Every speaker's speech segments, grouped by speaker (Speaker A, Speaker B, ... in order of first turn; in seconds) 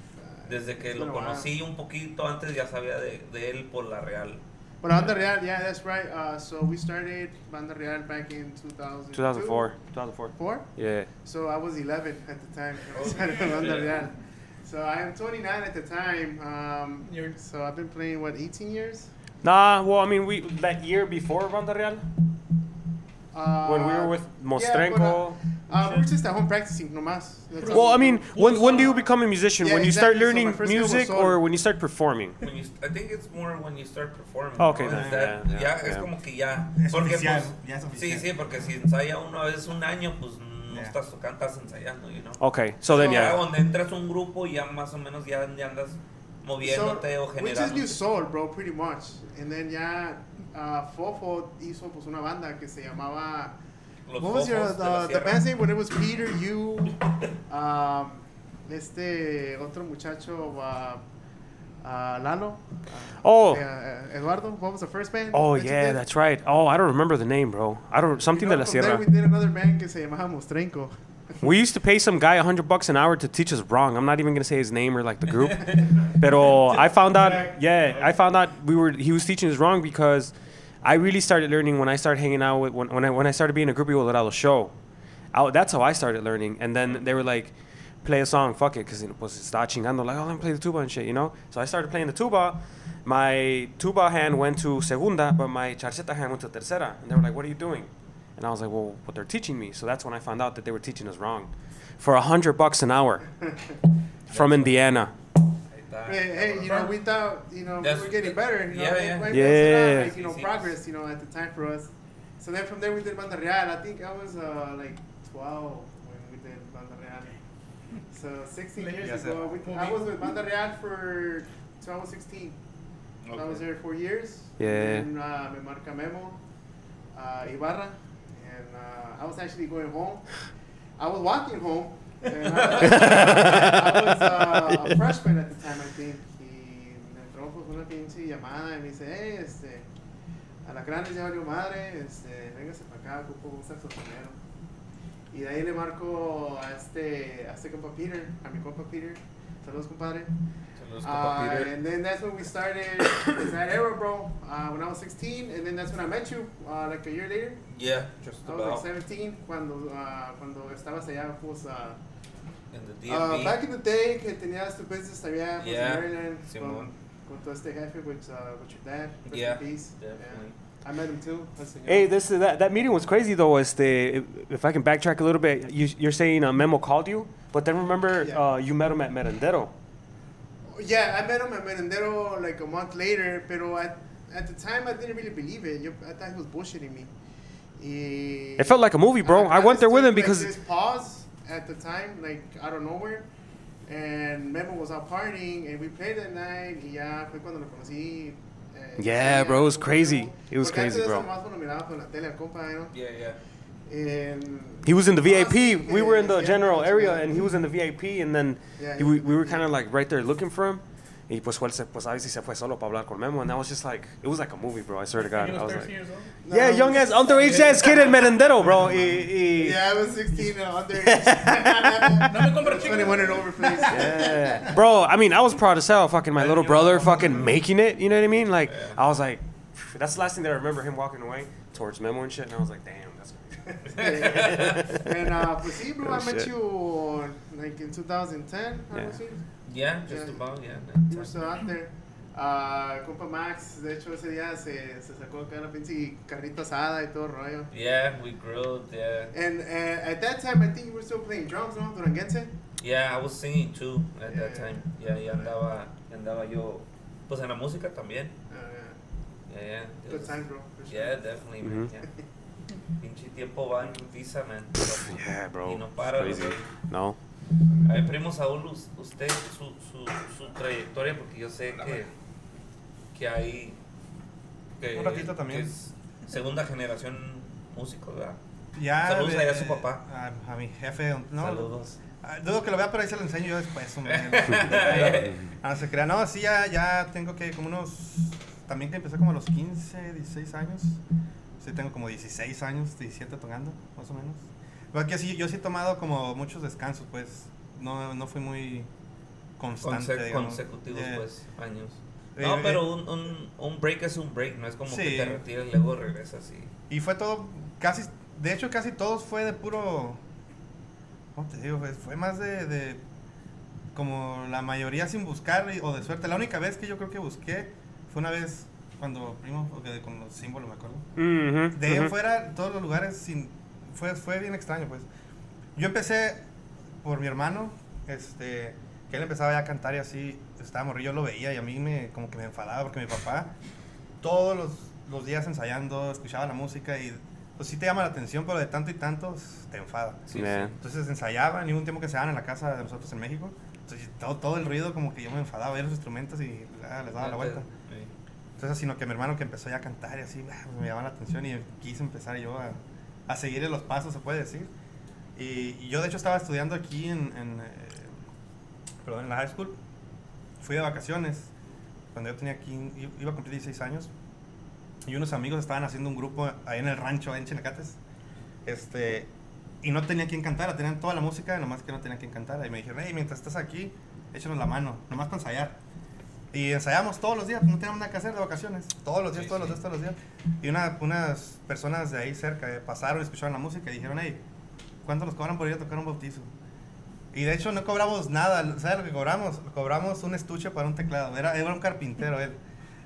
Speaker A: 0.4-1.5, 4.8-9.7, 10.3-10.7, 11.2-19.1, 23.3-28.9, 29.6-31.4, 42.9-43.4, 46.6-53.5, 54.2-61.0, 61.8-66.0, 68.3-70.9, 77.2-77.5, 106.1-117.3, 118.1-122.6, 123.3-126.4, 127.1-130.3, 131.0-139.8, 140.6-144.3, 145.3-150.3, 151.0-157.6, 158.4-162.0, 163.1-172.1, 180.7-187.1, 187.8-193.2, 193.8-202.9, 203.9-207.5, 208.8-209.7, 216.4-218.4, 219.4-224.7, 233.9-239.4, 240.1-240.4, 241.1-247.7, 249.3-252.5, 254.3-255.5, 258.5-259.0, 260.1-261.3
Speaker B: 0.5-4.4, 12.9-14.1, 32.4-48.0, 54.1-55.5, 104.3-104.8, 105.7-106.9, 107.8-110.8, 123.2-123.6, 150.8-151.7, 157.7-158.8, 162.7-163.6, 165.6-166.9, 169.2-170.5, 202.9-203.4, 226.4-227.5, 228.7-229.0, 233.9-234.8, 239.7-241.6, 247.7-249.3, 252.8-258.3, 259.5-262.1, 263.0-266.7, 267.8-272.1, 273.1-273.8, 274.8-278.4, 279.0-280.0, 281.4-282.0, 284.1-285.4, 299.8-306.7, 340.3-340.7, 347.2-348.1, 379.3-379.8
Speaker C: 9.1-11.1, 19.4-22.1, 23.6-25.4, 27.7-32.4, 34.6-36.1, 42.4-43.4, 63.2-63.6, 65.3-69.1, 71.4-84.7, 85.3-103.3, 104.3-105.1, 109.3-110.1, 124.6-125.1, 132.8-134.9, 171.8-179.7, 188.6-190.5, 199.0-201.3, 204.8-215.9, 216.5-219.8, 220.9-222.3, 223.8-235.3, 236.0-236.5, 238.9-239.2, 261.6-261.9, 264.8-267.2, 321.2-322.1, 340.3-340.7
Speaker D: 17.0-17.3, 27.6-29.0, 106.7-106.9, 118.8-120.4, 215.2-216.3, 222.2-223.8
Speaker E: 34.9-35.3, 36.8-38.3, 119.0-119.5, 274.9-275.7, 278.8-291.0, 291.6-298.9, 299.6-301.2, 302.4-302.9, 304.9-305.4, 306.9-310.2, 311.4-313.0, 313.9-321.0, 321.7-325.1, 325.8-326.4, 327.0-333.5, 334.2-347.7, 348.6-354.7, 355.4-358.1, 359.0-359.8, 360.6-361.5, 362.1-364.1, 365.1-368.0, 368.6-369.3, 369.8-375.8, 376.5-384.4, 385.0-386.5, 387.3-392.6